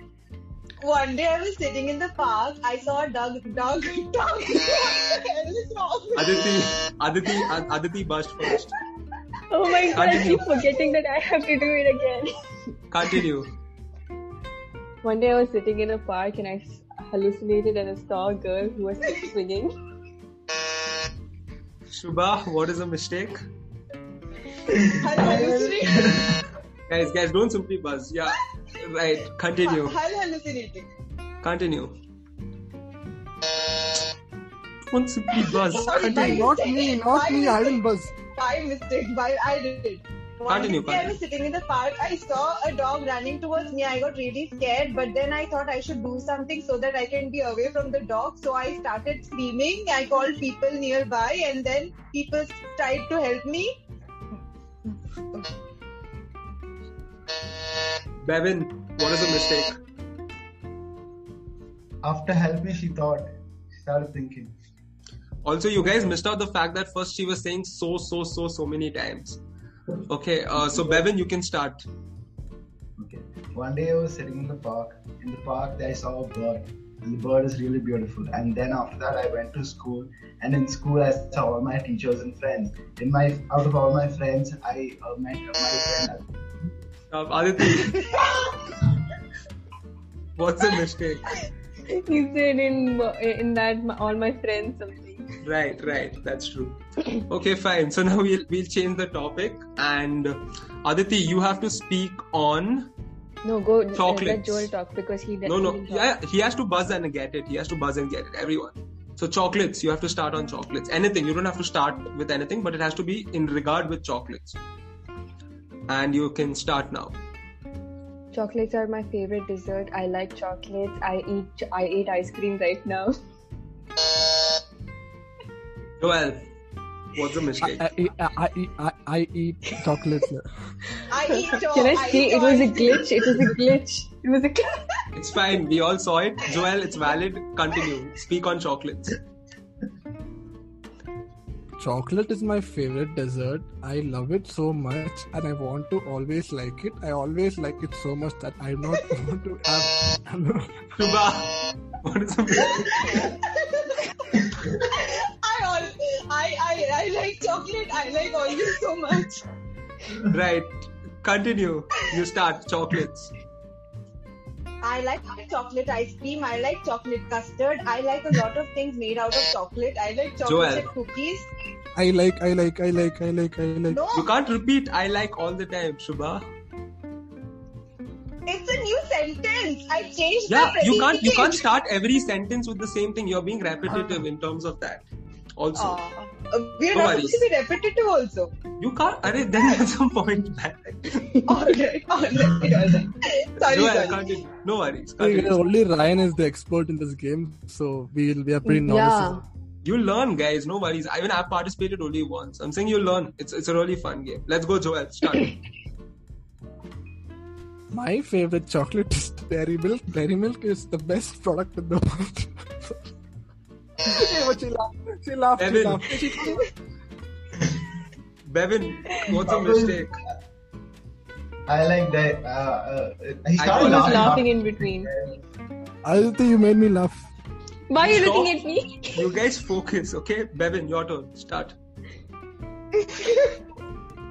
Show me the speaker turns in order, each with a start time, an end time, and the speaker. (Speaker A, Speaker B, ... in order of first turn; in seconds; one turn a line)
Speaker A: 0.8-6.6
Speaker B: 6.2-8.8
Speaker C: 9.5-12.3
Speaker B: 9.9-10.5
Speaker A: 10.0-10.6
Speaker B: 12.9-13.5
Speaker C: 15.0-19.7
Speaker B: 21.9-23.4
Speaker D: 24.8-26.4
Speaker A: 24.9-26.3
Speaker B: 26.9-30.0
Speaker A: 29.6-30.9
Speaker B: 31.4-31.9
Speaker B: 34.9-36.5
Speaker A: 35.5-53.7
Speaker E: 35.8-38.1
Speaker B: 40.5-41.2
Speaker B: 58.2-59.8
Speaker D: 62.0-64.5
Speaker B: 65.4-69.4
Speaker B: 70.1-71.8
Speaker D: 73.0-86.7
Speaker B: 87.1-88.1
Speaker A: 87.8-88.3
Speaker B: 90.4-91.3
Speaker C: 91.9-95.3
Speaker B: 95.4-102.9
Speaker C: 103.4-106.1
Speaker B: 104.0-104.7
Speaker B: 105.5-114.6
Speaker B: 115.9-117.2
Speaker C: 118.3-123.1
Speaker B: 126.0-126.4
Speaker B: 127.1-127.8
Speaker E: 127.6-130.5
Speaker A: 131.1-133.2
Speaker C: 131.3-134.8
Speaker B: 135.2-139.2
Speaker E: 141.8-150.9
Speaker B: 151.0-153.3
Speaker A: 152.9-159.4
Speaker B: 160.2-163.3
Speaker A: 164.8-171.5
Speaker B: 170.4-170.9
Speaker E: 172.0-174.0
Speaker A: 173.9-174.3
Speaker B: 174.1-176.5
Speaker A: 178.5-181.6
Speaker B: 180.5-185.0
Speaker B: 185.6-186.0
Speaker A: 185.8-188.6
Speaker B: 186.9-187.5
Speaker B: 188.8-191.3
Speaker A: 191.5-194.2
Speaker B: 193.6-195.6
Speaker E: 195.2-199.4
Speaker C: 198.7-199.4
Speaker B: 199.8-205.6
Speaker E: 207.9-213.0
Speaker E: 214.0-216.7
Speaker B: 215.6-216.1
Speaker B: 218.5-220.2
Speaker D: 219.3-220.2
Speaker D: 221.7-225.4
Speaker B: 223.6-224.4
Speaker C: 223.8-225.1
Speaker E: 226.1-227.3
Speaker C: 227.9-229.3
Speaker B: 228.0-228.5
Speaker B: 229.1-231.8
Speaker A: 233.0-233.6